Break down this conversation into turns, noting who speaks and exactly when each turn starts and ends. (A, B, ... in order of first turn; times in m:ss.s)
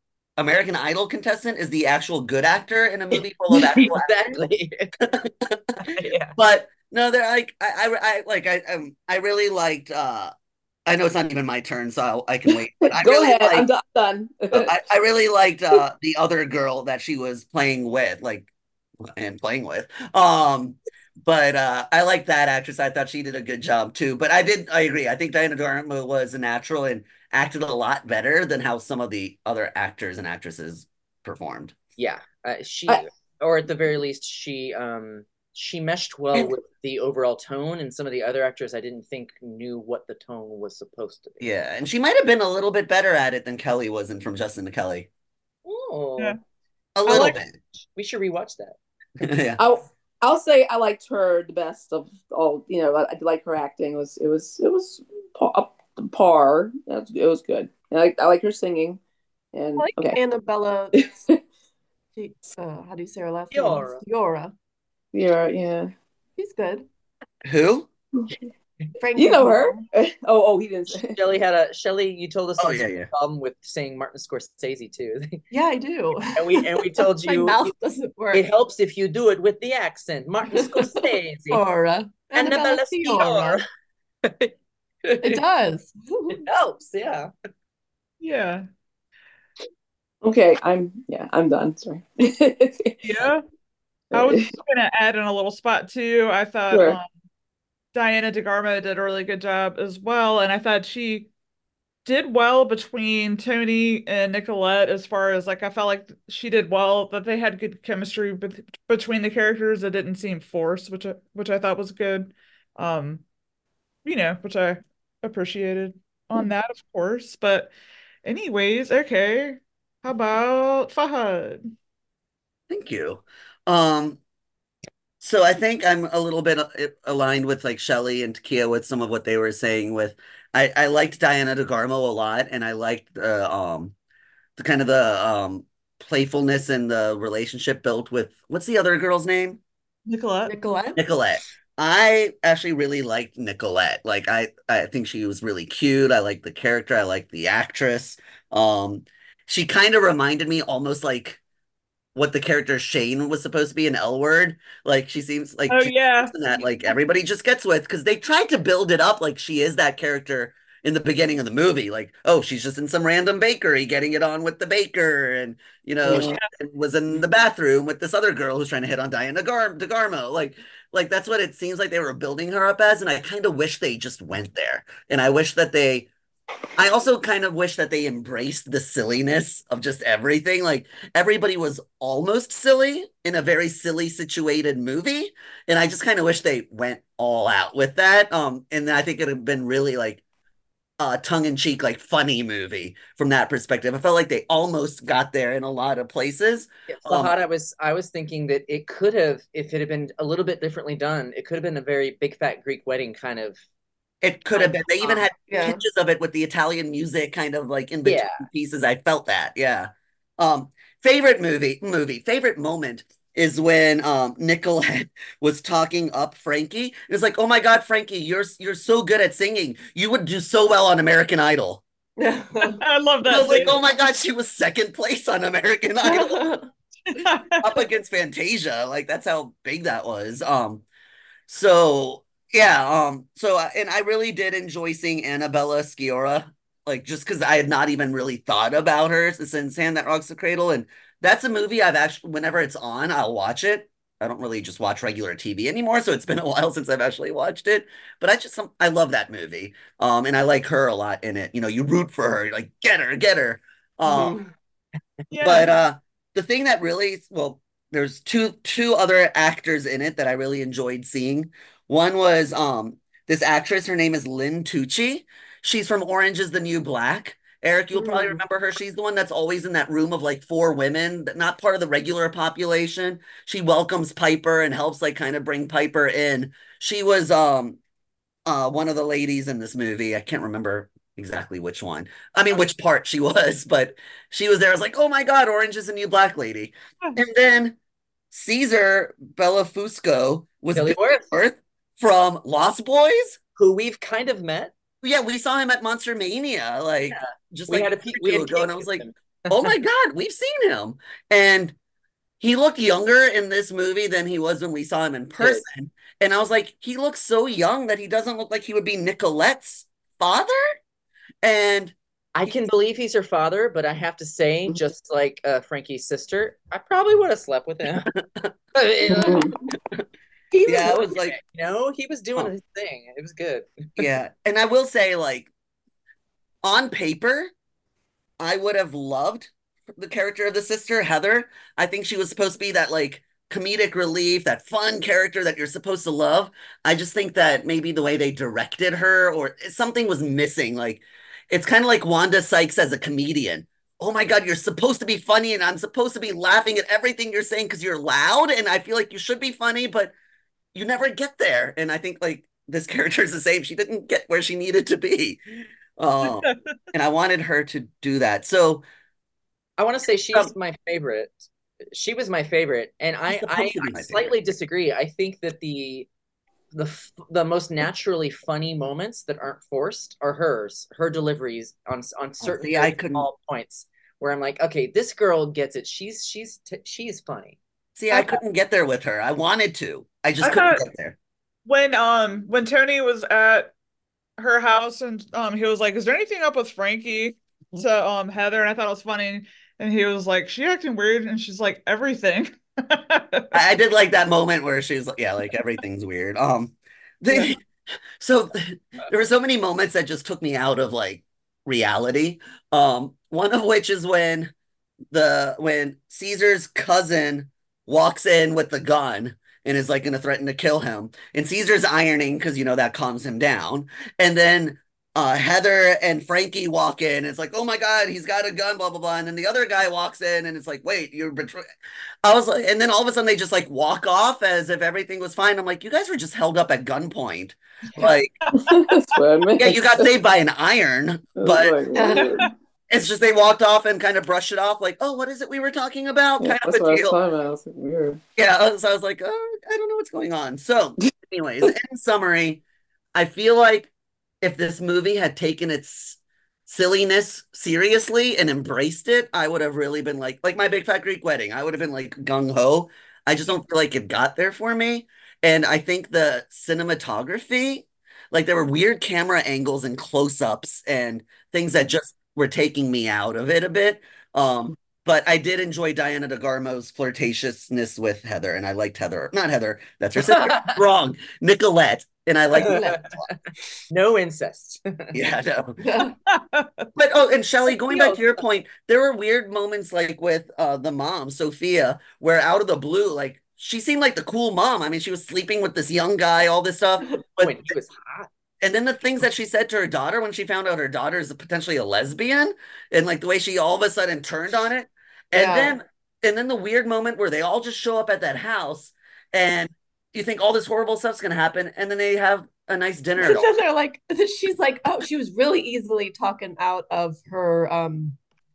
0:00.4-0:04.4 A
0:03.5-0:04.9 B
0:05.0-0:05.6 A
0:06.4-0:10.3 A
0:10.9-0:13.7 A
0:12.8-0:14.7 C
0:14.5-0:18.5 A
0:19.0-0:31.7 A
0:32.0-0:41.4 B
0:41.4-0:45.1 A
0:45.6-0:46.4 B
0:47.0-0:47.5 A
0:47.0-0:47.4 D
0:47.1-0:48.8 B
0:49.2-0:49.6 A
0:49.6-0:59.0 C
0:59.5-1:00.2 C
0:59.8-1:01.3 E
1:01.0-1:01.4 C
1:02.2-1:04.5 E
1:03.5-1:04.0 B
1:05.1-1:05.9 C
1:06.4-1:06.9 E
1:07.5-1:07.9 A
1:09.0-1:09.8 E
1:09.1-1:11.2 C
1:11.0-1:15.4 B
1:12.6-1:13.1 A
1:15.5-1:18.4 E
1:16.4-1:17.7 B
1:18.3-1:21.6 B
1:21.5-1:23.6 E
1:22.3-1:23.6 B
1:24.2-1:24.5 B
1:25.0-1:25.4 B
1:25.2-1:26.4 E
1:26.3-1:27.3 B
1:28.2-1:28.7 D
1:30.2-1:33.1 C
1:33.0-1:33.4 D
1:34.1-1:34.5 C
1:34.1-1:37.1 D
1:36.7-1:37.0 C
1:37.9-1:41.3 D
1:42.0-1:53.2 D
1:54.0-1:57.7 D
1:58.2-2:01.7 D
2:02.7-2:04.2 A
2:05.2-2:13.9 A
2:14.6-2:19.6 A
2:20.0-2:20.5 D
2:20.4-2:21.0 E
2:21.0-2:31.4 A
2:32.1-2:56.1 A
2:35.7-2:36.3 D
2:46.1-2:46.4 D
2:56.8-3:10.2 A
3:11.0-3:17.3 A
3:16.9-3:23.6 B
3:24.2-3:41.8 A
3:24.5-3:25.3 B
3:28.0-3:28.5 B
3:42.2-3:42.8 E
3:42.8-3:43.8 D
3:43.3-3:46.6 A
3:43.4-3:43.7 E
3:46.0-3:46.6 E
3:47.1-3:47.6 D
3:47.6-3:50.8 A
3:51.5-4:14.4 A
4:14.0-4:14.4 E
4:15.3-4:15.7 D
4:15.4-4:37.8 A
4:27.9-4:28.4 E
4:38.4-4:47.8 A
4:48.3-4:53.4 A
4:50.7-4:51.2 B
4:53.6-4:54.7 B
4:55.0-5:01.8 A
4:57.1-4:59.7 B
5:02.4-5:10.6 A
5:05.4-5:05.6 B
5:11.4-5:12.5 A
5:12.3-5:18.1 B
5:18.0-5:18.5 A
5:18.7-5:19.4 B
5:19.2-5:19.5 C
5:20.5-5:21.1 E
5:20.6-5:21.4 A
5:20.9-5:24.0 B
5:24.0-5:25.5 A
5:26.6-5:27.5 A
5:28.4-5:50.1 A
5:50.7-5:58.8 A
5:56.2-5:56.6 D
5:59.8-6:06.1 B
6:03.3-6:04.3 A
6:06.7-6:17.6 B
6:12.4-6:13.3 A
6:18.0-6:21.2 A
6:18.1-6:18.4 D
6:20.4-6:20.8 D
6:21.6-6:23.7 D
6:24.4-6:33.6 D
6:33.5-6:37.6 A
6:38.2-6:44.5 A
6:45.1-7:01.7 A
7:02.2-7:08.4 A
7:08.0-7:09.2 D
7:08.5-7:10.1 C
7:09.6-7:11.8 A
7:11.4-7:12.5 C
7:11.9-7:12.4 E
7:12.9-7:17.2 A
7:16.4-7:18.2 C
7:18.4-7:22.6 A
7:23.1-7:23.9 A
7:24.4-7:52.8 A
7:50.3-7:50.7 B
7:52.5-7:53.3 B
7:52.6-7:53.2 E
7:53.9-7:55.1 B
7:55.1-7:55.8 A
7:55.8-7:56.1 E
7:56.3-7:56.8 D
7:57.0-8:07.7 A
7:57.9-7:58.2 E
8:07.4-8:08.3 B
8:08.6-8:23.5 A
8:15.3-8:15.8 E
8:23.2-8:28.2 E